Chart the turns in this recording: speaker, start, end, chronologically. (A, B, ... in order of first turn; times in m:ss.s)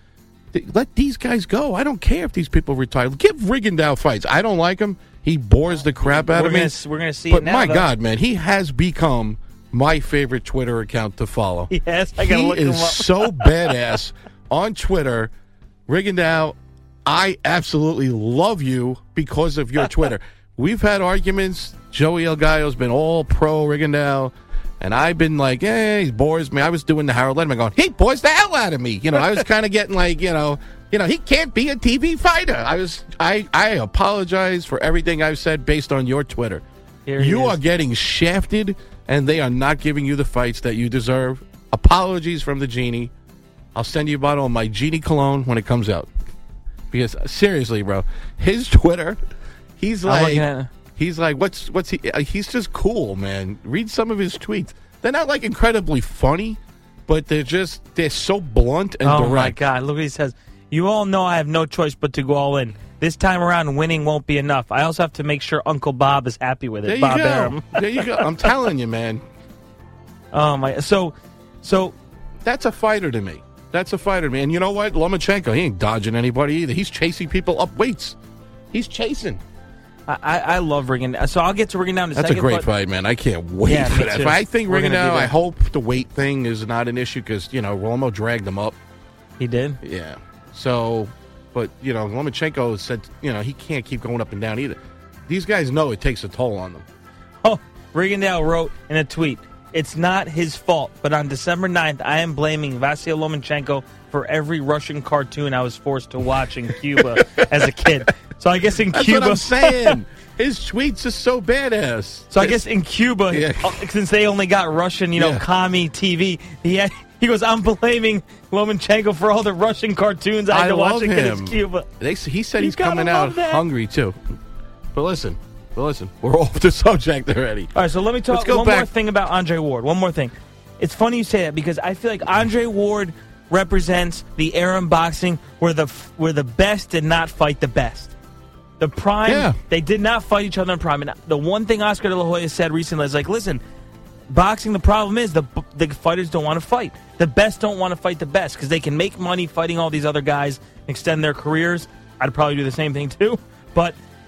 0:00.5-0:06.8 A
0:05.8-0:07.9 B
0:07.3-0:15.3 A
0:11.7-0:13.7 B
0:15.9-0:36.6 A
0:37.1-0:37.6 B
0:37.2-0:43.1 A
0:43.8-0:46.1 A
0:46.9-0:49.2 A
0:49.8-0:59.6 A
0:50.1-0:50.7 B
0:59.0-1:08.5 B
1:06.8-1:09.2 A
1:10.3-1:12.0 B
1:12.4-1:18.2 A
1:18.7-1:19.4 A
1:20.1-1:22.7 B
1:22.1-1:28.8 A
1:23.6-1:25.3 B
1:29.4-1:29.8 B
1:29.8-1:36.8 A
1:37.4-1:50.0 B
1:47.2-1:47.7 A
1:48.9-1:52.6 A
1:52.3-2:01.9 B
1:53.3-1:53.8 A
1:55.2-1:55.4 A
2:00.5-2:04.2 A
2:02.6-2:03.6 B
2:04.9-2:07.7 A
2:07.8-2:18.1 B
2:08.3-2:08.9 A
2:18.8-2:23.6 B
2:19.2-2:19.6 A
2:24.3-2:34.0 B